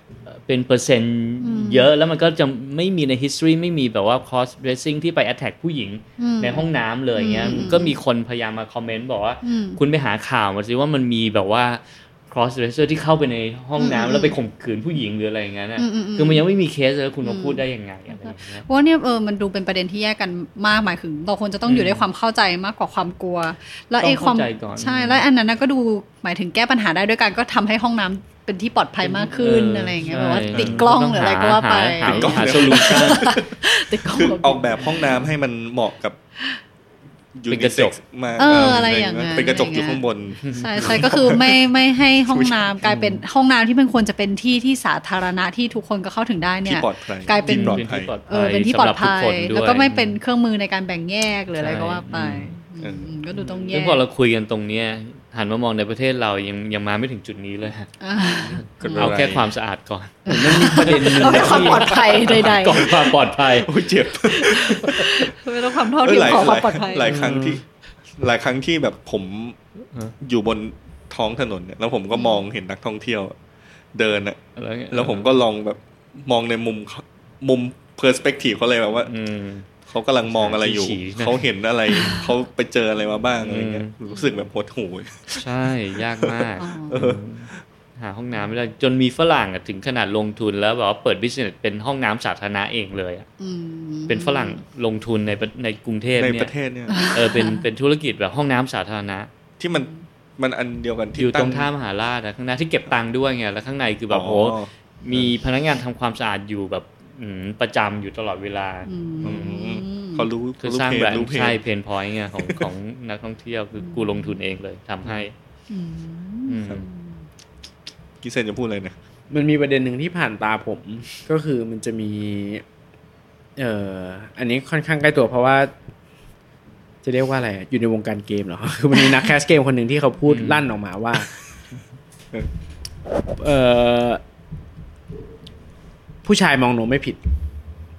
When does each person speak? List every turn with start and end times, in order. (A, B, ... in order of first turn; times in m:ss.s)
0:00.3-0:18.6 A
0:01.4-0:01.9 B
0:06.2-0:08.0 B
0:07.4-0:07.8 C
0:09.4-0:09.8 B
0:13.8-0:14.4 B
0:15.8-0:16.4 B
0:17.2-0:17.6 B
0:18.2-0:35.2 B
0:21.6-0:22.1 A
0:24.0-0:25.2 A
0:29.0-0:33.3 A
0:30.5-0:30.9 D
0:32.0-0:36.2 D
0:34.8-0:35.1 A
0:37.4-0:42.7 D
0:37.5-0:38.0 A
0:38.4-0:54.0 B
0:40.4-0:41.1 A
0:42.8-0:43.2 C
0:46.6-0:48.1 D
0:47.4-0:50.2 A
0:51.6-0:52.6 A
0:52.8-0:53.2 D
0:53.7-0:57.9 A
0:58.0-0:59.1 B
0:58.5-0:59.5 D
0:58.9-1:03.7 A
1:00.3-1:02.1 C
1:00.3-1:03.2 B
1:02.2-1:02.9 D
1:03.5-1:07.6 D
1:04.2-1:07.2 B
1:07.0-1:07.6 C
1:08.2-1:09.6 D
1:10.2-1:13.4 D
1:12.1-1:12.4 B
1:13.9-1:14.4 D
1:14.6-1:15.3 A
1:14.9-1:19.1 D
1:19.1-1:19.7 A
1:19.9-1:25.4 D
1:20.3-1:21.4 A
1:21.9-1:22.3 B
1:23.4-1:23.9 A
1:24.0-1:24.3 B
1:25.4-1:33.3 A
1:26.2-1:27.2 D
1:26.6-1:27.0 B
1:33.4-1:34.6 B
1:34.1-1:36.5 A
1:36.2-1:37.1 D
1:36.9-1:37.6 B
1:37.1-1:39.3 A
1:39.6-1:41.7 D
1:39.7-1:40.0 B
1:41.2-1:49.4 A
1:44.1-1:45.3 D
1:48.9-1:50.3 B
1:49.2-1:51.6 D
1:50.6-1:55.3 A
1:52.4-1:52.7 D
1:53.8-1:54.3 B
1:55.7-1:57.1 B
1:56.4-1:56.9 A
1:58.2-1:58.9 D
1:59.3-2:02.6 C
2:03.6-2:05.7 C
2:07.0-2:11.3 C
2:09.0-2:09.3 B
2:10.3-2:10.7 A
2:13.3-2:14.2 C
2:16.2-2:17.2 C